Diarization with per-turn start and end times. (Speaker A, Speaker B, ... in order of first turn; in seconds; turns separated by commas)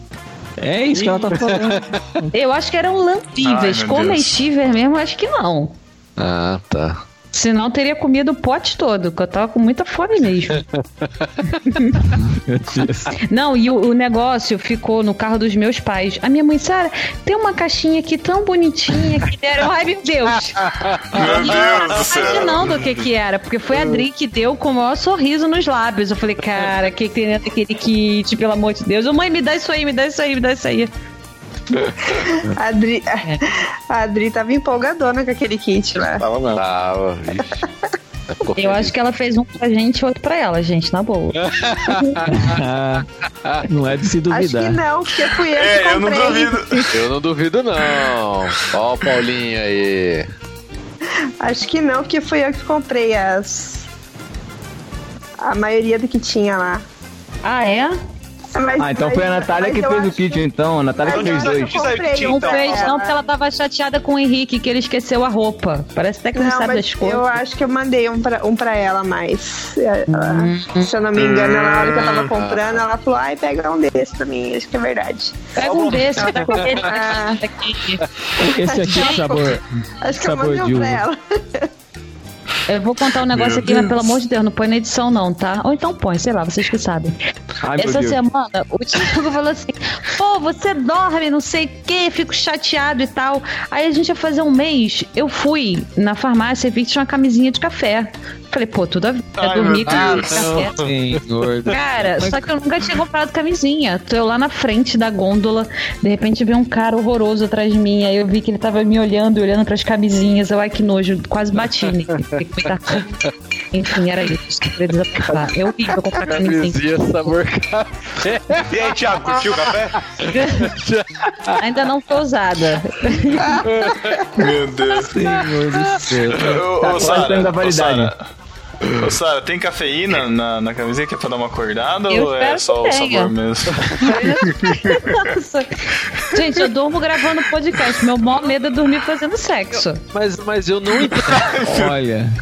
Speaker A: 0.6-2.3, Speaker B: 1.3-1.8, Speaker C: 2.3-5.8, Speaker D: 3.4-4.4, Speaker B: 6.2-7.0, Speaker C: 7.3-10.6, Speaker B: 10.5-11.3, Speaker C: 11.7-12.0, Speaker A: 12.2-13.1, Speaker C: 13.2-20.6, Speaker B: 20.6-21.9, Speaker D: 21.1-22.8, Speaker C: 21.2-30.9, Speaker E: 32.5-36.2, Speaker F: 36.2-36.6, Speaker B: 36.5-37.5, Speaker B: 38.3-38.9, Speaker C: 38.6-41.4, Speaker B: 41.3-42.6, Speaker A: 42.3-43.1, Speaker A: 43.6-44.8, Speaker E: 44.3-46.9, Speaker D: 45.4-46.9, Speaker B: 46.9-50.3, Speaker E: 51.4-53.9, Speaker E: 55.4-56.8, Speaker C: 57.4-58.0, Speaker E: 58.5-60.4, Speaker G: 58.8-61.8, Speaker E: 61.0-63.1, Speaker F: 61.1-63.0, Speaker C: 62.2-67.3, Speaker E: 66.3-77.4, Speaker C: 70.1-70.9, Speaker D: 71.1-72.3, Speaker B: 72.3-72.7, Speaker C: 75.6-78.0, Speaker F: 75.6-76.5, Speaker A: 78.4-81.0, Speaker E: 78.6-81.7, Speaker C: 78.8-79.2, Speaker C: 82.7-87.1, Speaker D: 83.3-83.8, Speaker G: 87.6-88.2, Speaker C: 87.8-100.8, Speaker D: 99.4-100.4, Speaker B: 99.9-100.6, Speaker A: 100.3-102.4, Speaker B: 101.1-101.8, Speaker C: 101.7-113.0, Speaker B: 111.8-112.4, Speaker B: 112.9-113.3, Speaker C: 113.7-116.8, Speaker B: 115.2-118.8, Speaker F: 118.7-120.0, Speaker B: 119.3-121.7, Speaker C: 120.3-120.7, Speaker C: 121.6-123.6, Speaker B: 123.5-124.4, Speaker D: 124.4-125.1, Speaker A: 125.1-126.5, Speaker B: 125.2-126.5, Speaker D: 126.4-128.2, Speaker G: 126.8-128.1, Speaker D: 129.0-135.2, Speaker C: 132.1-133.3, Speaker B: 133.8-134.2, Speaker C: 134.0-140.0, Speaker B: 140.1-141.7, Speaker D: 141.3-141.9, Speaker A: 141.7-142.3